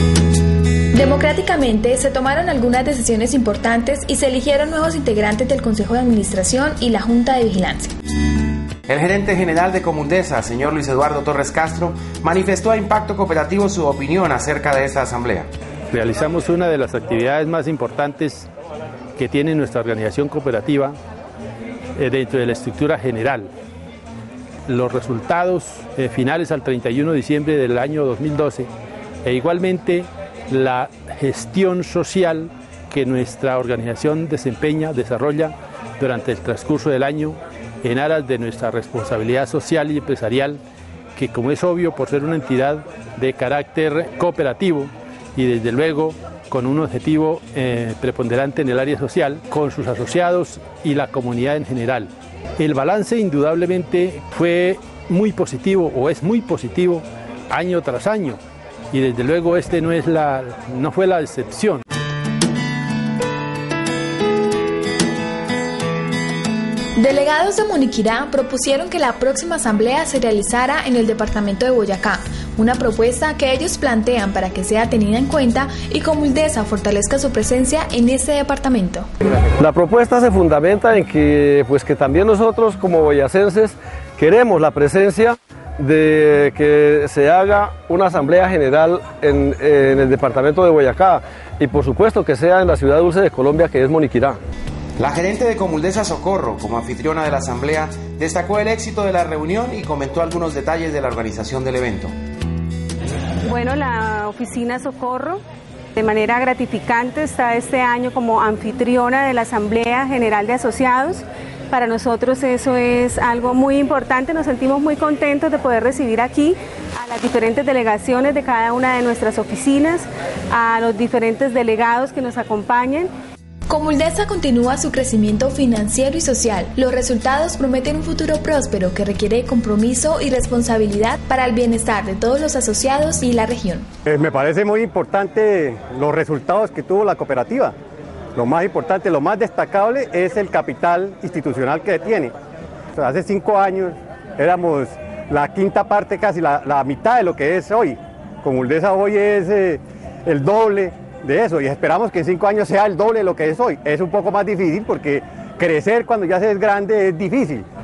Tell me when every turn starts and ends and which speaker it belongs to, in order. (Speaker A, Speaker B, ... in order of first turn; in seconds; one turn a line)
Speaker A: 0.9-7.9
Speaker B: 8.9-15.5
Speaker C: 15.9-18.5
Speaker C: 19.2-21.0
Speaker C: 22.0-23.5
Speaker C: 24.7-28.7
Speaker C: 29.2-40.6
Speaker C: 41.1-58.4
Speaker C: 58.9-61.8
Speaker A: 67.0-79.1
Speaker D: 79.6-94.4
Speaker B: 95.0-102.1
Speaker E: 103.5-105.4
Speaker E: 106.0-123.1
Speaker A: 123.7-133.9
Speaker F: 134.1-137.8
Speaker F: 138.4-142.3
Speaker F: 142.9-157.7